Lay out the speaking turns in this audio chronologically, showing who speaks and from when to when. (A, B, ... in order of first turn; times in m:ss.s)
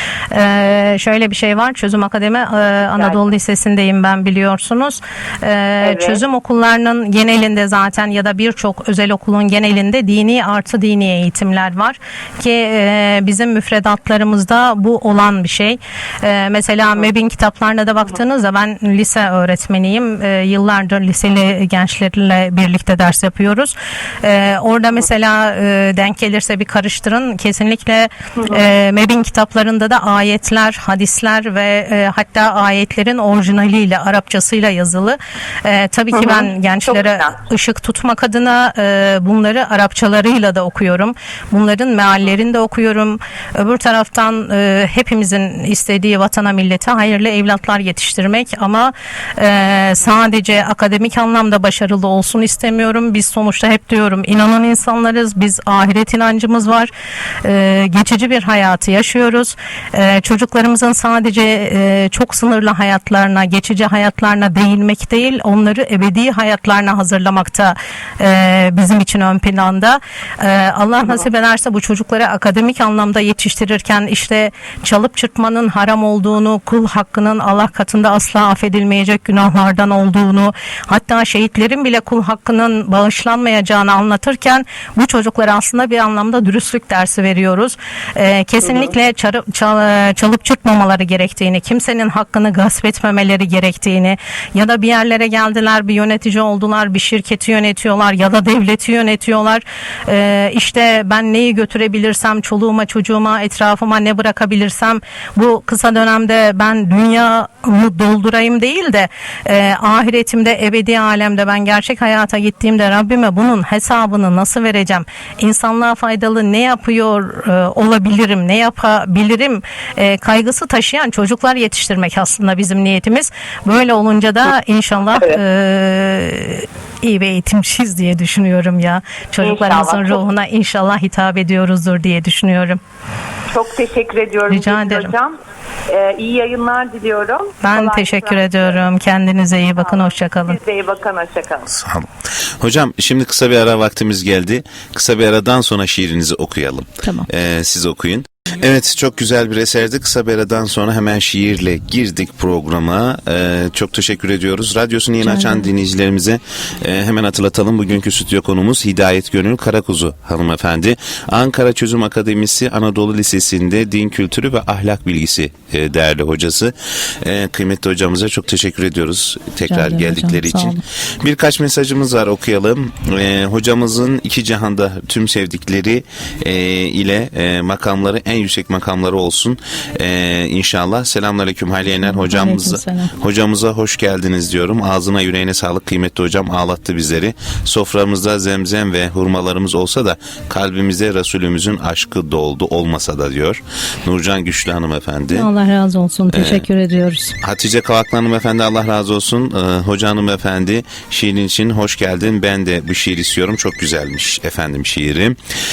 0:00.3-0:56.9 A
0:02.9-0:03.2 B
0:05.8-0:06.2 B
0:36.1-0:37.3 B
0:57.4-2:12.8 A
2:09.4-2:10.2 B
2:13.5-2:15.4 B
2:14.5-2:15.1 A
2:15.9-2:18.8 B
2:17.6-2:20.6 A
2:19.9-2:21.7 B
2:21.7-2:22.1 C
2:22.6-3:15.5 C
2:35.2-2:35.7 A
2:49.7-2:50.8 A
3:02.1-3:03.1 A
3:15.3-3:17.3 A
3:16.3-3:16.6 C
3:17.4-3:25.4 C